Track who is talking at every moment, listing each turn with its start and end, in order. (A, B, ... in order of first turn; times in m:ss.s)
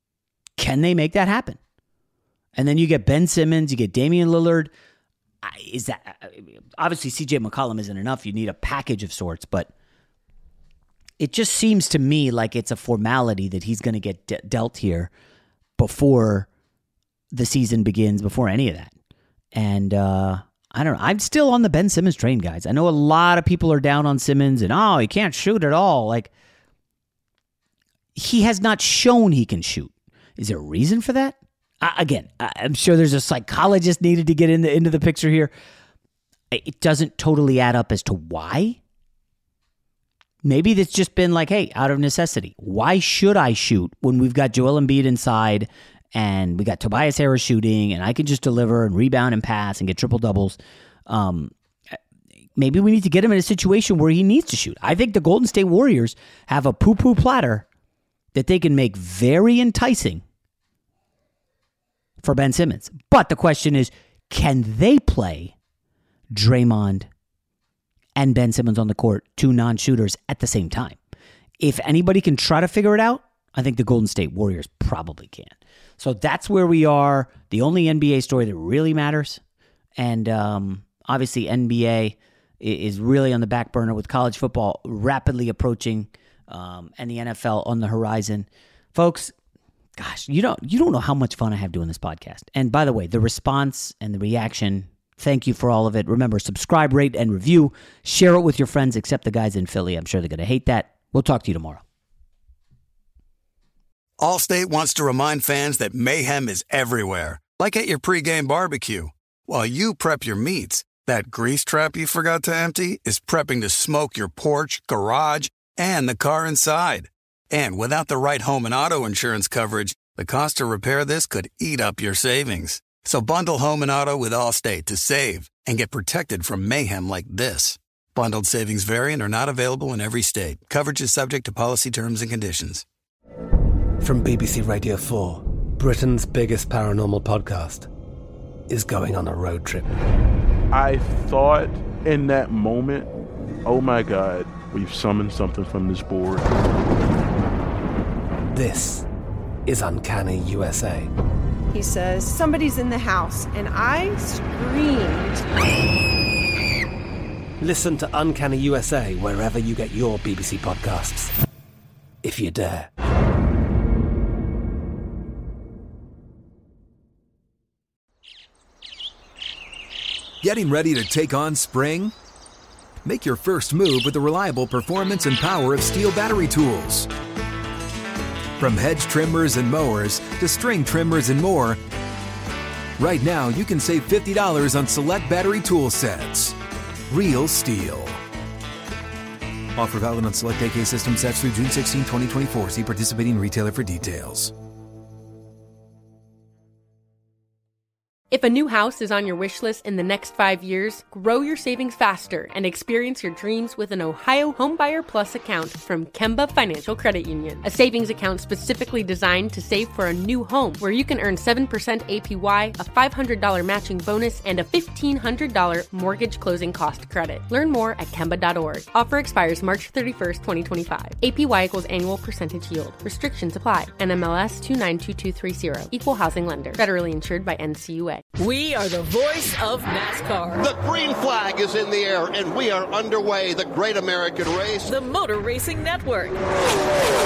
0:00.6-0:01.6 A
0:02.6-0:04.7 A
0:05.4-0:09.7 A
0:11.2-0:15.1 A
0:15.8-0:16.5 A
0:17.3-0:18.9 A
0:19.5-0:26.3 A
0:28.1-0:35.5 A
0:36.5-0:38.8 A
0:40.4-0:52.0 A
0:52.6-0:57.6 A
0:58.3-1:00.2 A
1:02.2-1:05.5 A
1:06.3-1:07.1 A
1:08.2-1:11.0 A
1:11.6-1:19.4 A
1:20.0-1:29.3 A
1:30.0-1:41.8 A
1:44.2-2:12.8 B
2:14.0-2:17.9 C
2:18.7-2:19.9 C
2:20.7-2:23.1 D
2:23.6-2:26.5 D
2:28.5-2:29.0 C
2:29.6-2:31.1 C
2:31.7-2:35.4 E
2:37.6-2:41.3 C
2:42.2-2:42.9 C
2:50.4-2:52.1 F
2:53.0-2:57.1 F
2:58.6-3:01.8 F
3:03.0-3:06.5 F
3:07.1-3:08.2 F
3:09.8-3:14.5 F
3:18.3-3:48.2 G
3:48.4-3:50.6 H
3:50.6-3:54.9 I
3:54.8-3:56.4 H